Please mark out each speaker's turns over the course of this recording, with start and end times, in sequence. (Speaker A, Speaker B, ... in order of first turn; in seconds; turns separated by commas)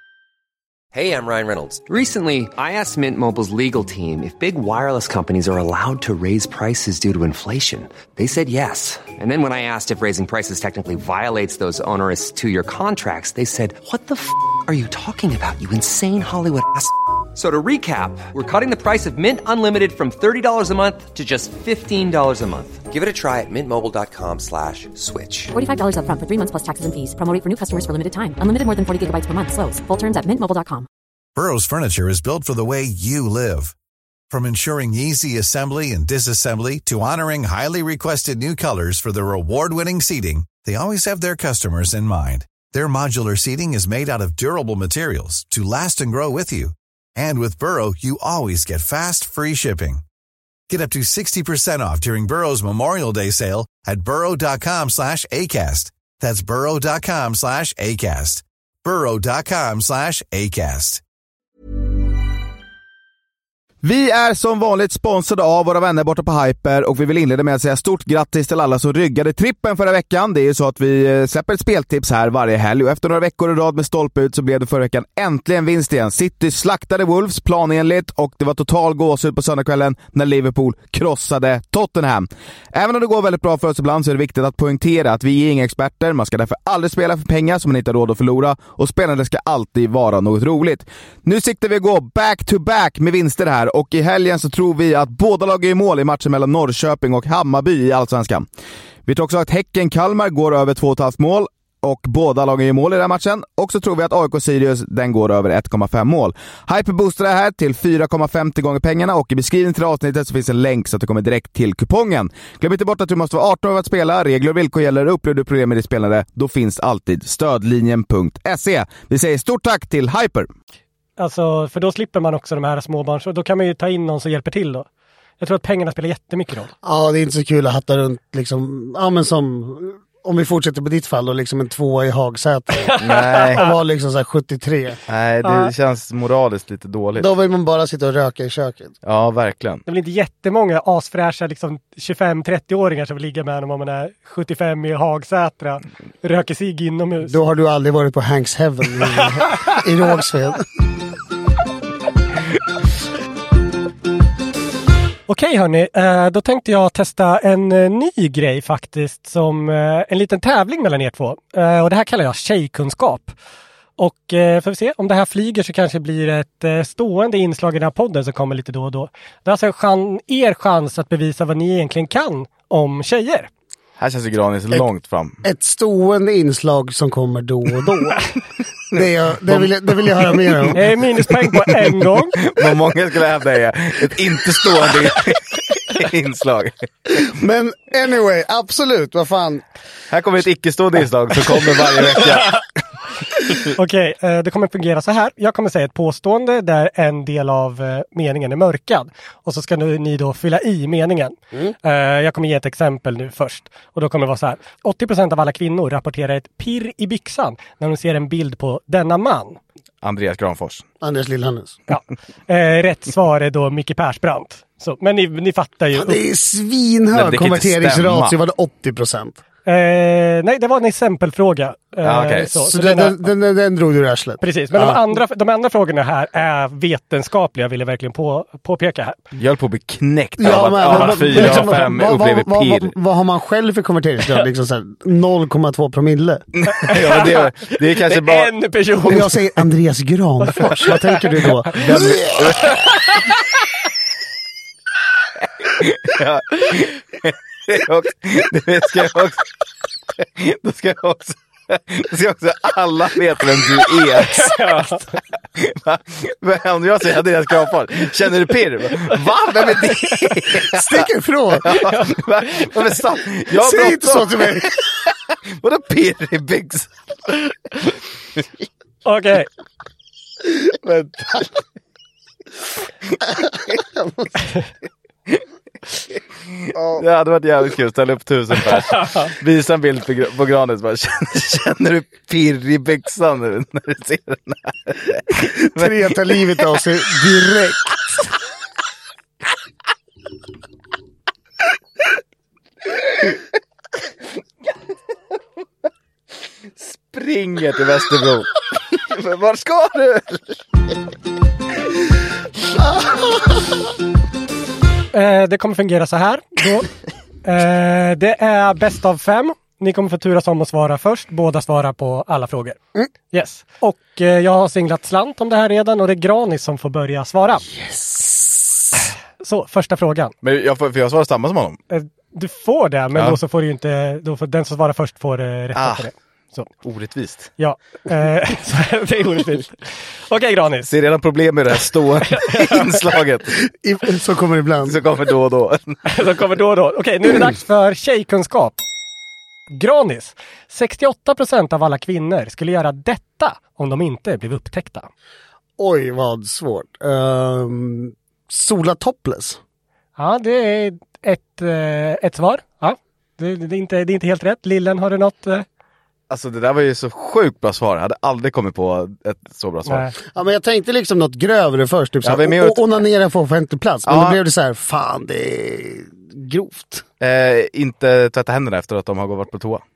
Speaker A: 0.9-25.5, Speaker B: 25.5-30.9, Speaker C: 31.4-33.7, Speaker C: 34.3-50.0, Speaker C: 50.7-61.0, Speaker D: 63.8-98.5, Speaker D: 99.1-120.5, Speaker E: 121.2-124.9, Speaker E: 125.4-126.7, Speaker F: 126.8-135.0, Speaker E: 132.8-133.7, Speaker G: 133.0-133.6, Speaker G: 135.1-137.3, Speaker E: 135.4-135.7, Speaker F: 137.2-138.9, Speaker G: 139.0-139.8, Speaker E: 139.9-147.4, Speaker F: 147.2-150.6, Speaker E: 155.3-163.3, Speaker E: 164.0-173.5, Speaker G: 174.0-175.4, Speaker F: 175.4-178.2, Speaker F: 178.9-180.8, Speaker G: 179.0-180.7, Speaker E: 180.8-182.4, Speaker G: 181.2-186.9, Speaker F: 187.1-189.6, Speaker G: 190.1-192.6, Speaker E: 192.2-192.5, Speaker E: 193.8-209.6, Speaker G: 210.0-210.9, Speaker F: 211.0-211.8, Speaker E: 211.9-216.2, Speaker F: 215.9-219.4, Speaker G: 217.1-218.3, Speaker E: 219.7-223.2, Speaker G: 222.0-222.6, Speaker F: 222.7-225.1, Speaker E: 224.4-229.2, Speaker G: 229.4-232.9, Speaker F: 230.4-236.4, Speaker E: 230.9-231.9, Speaker G: 236.7-238.5, Speaker E: 236.8-239.4, Speaker F: 239.0-242.6, Speaker E: 240.4-242.0, Speaker G: 241.8-242.9, Speaker E: 242.6-243.2, Speaker G: 245.7-249.4, Speaker G: 250.2-254.7, Speaker E: 254.2-255.0, Speaker G: 255.6-261.1, Speaker E: 260.0-260.3, Speaker F: 260.5-261.7, Speaker G: 261.6-264.6, Speaker E: 261.7-262.2, Speaker F: 263.5-264.8, Speaker G: 265.6-267.4, Speaker E: 269.1-269.5, Speaker F: 270.5-271.6, Speaker F: 273.3-274.3, Speaker F: 276.7-277.0, Speaker G: 277.0-285.9, Speaker E: 279.0-279.3, Speaker F: 285.6-288.2, Speaker G: 296.8-298.5, Speaker G: 299.1-300.4, Speaker E: 305.1-306.9, Speaker E: 307.4-312.8, Speaker E: 313.3-317.7, Speaker F: 317.8-318.4, Speaker E: 319.4-320.3, Speaker G: 320.4-321.8, Speaker E: 321.9-326.7, Speaker G: 323.1-323.4, Speaker G: 325.8-326.1, Speaker G: 326.8-327.5, Speaker E: 327.6-329.8, Speaker E: 330.3-330.9, Speaker G: 330.9-333.5, Speaker E: 332.4-333.0, Speaker F: 333.6-335.0, Speaker G: 334.9-336.0, Speaker E: 336.1-338.8, Speaker E: 339.7-345.1, Speaker F: 345.8-349.6, Speaker E: 350.2-355.6, Speaker G: 356.3-360.1, Speaker E: 359.9-360.1, Speaker F: 360.3-367.0, Speaker G: 362.2-362.8, Speaker G: 364.1-364.4, Speaker G: 367.2-369.8